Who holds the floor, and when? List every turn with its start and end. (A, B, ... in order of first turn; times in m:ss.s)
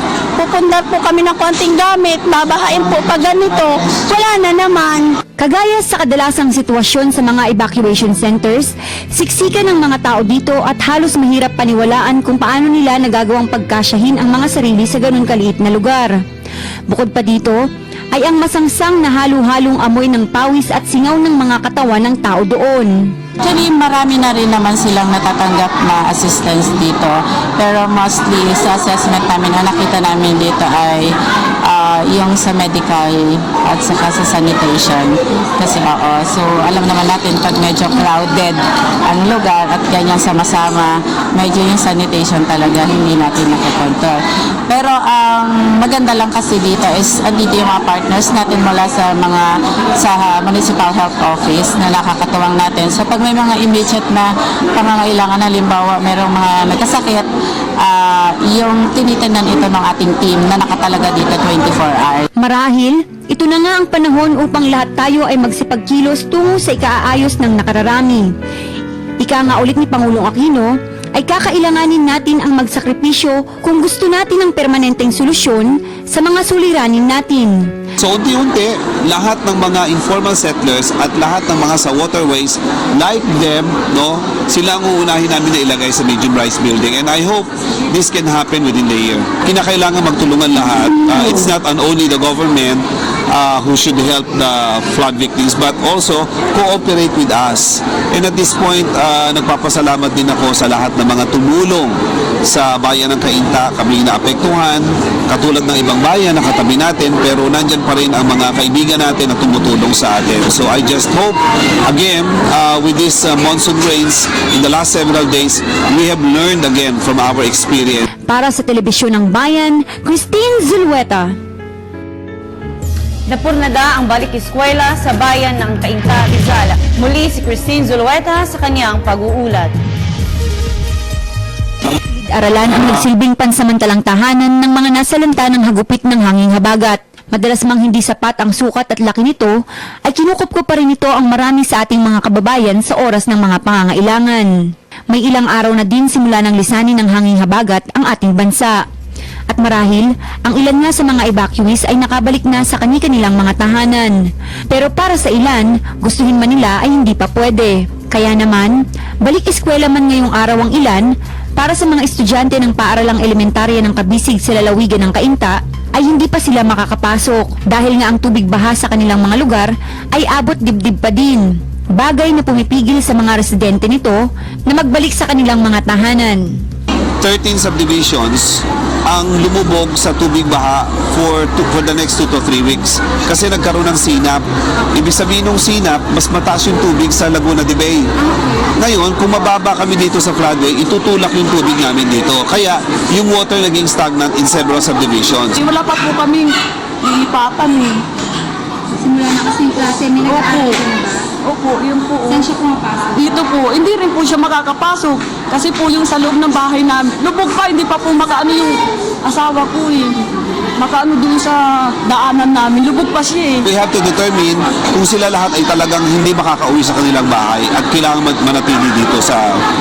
0:00.4-0:05.2 A
0:05.4-0:16.1 B
0:16.9-0:17.6 B
0:18.1-0:23.1 B
0:23.4-0:31.1 C
0:31.6-0:44.2 C
0:44.7-0:57.3 C
0:57.8-1:02.3 C
1:02.4-1:08.3 B
1:09.2-1:17.7 B
1:18.0-1:42.0 D
1:42.5-1:58.1 D
1:58.3-2:01.3 B
2:03.3-2:09.8 E
2:12.1-2:28.8 B
2:29.5-2:34.2 B
2:34.7-2:56.6 B
2:57.2-3:08.1 D
3:08.8-3:15.6 D
3:15.6-3:18.0 F
3:19.0-3:21.2 B
3:20.3-3:20.8 F
3:21.4-3:22.5 F
3:22.4-3:22.8 B
3:23.1-3:30.2 F
3:30.8-3:33.7 F
3:33.6-3:39.5 D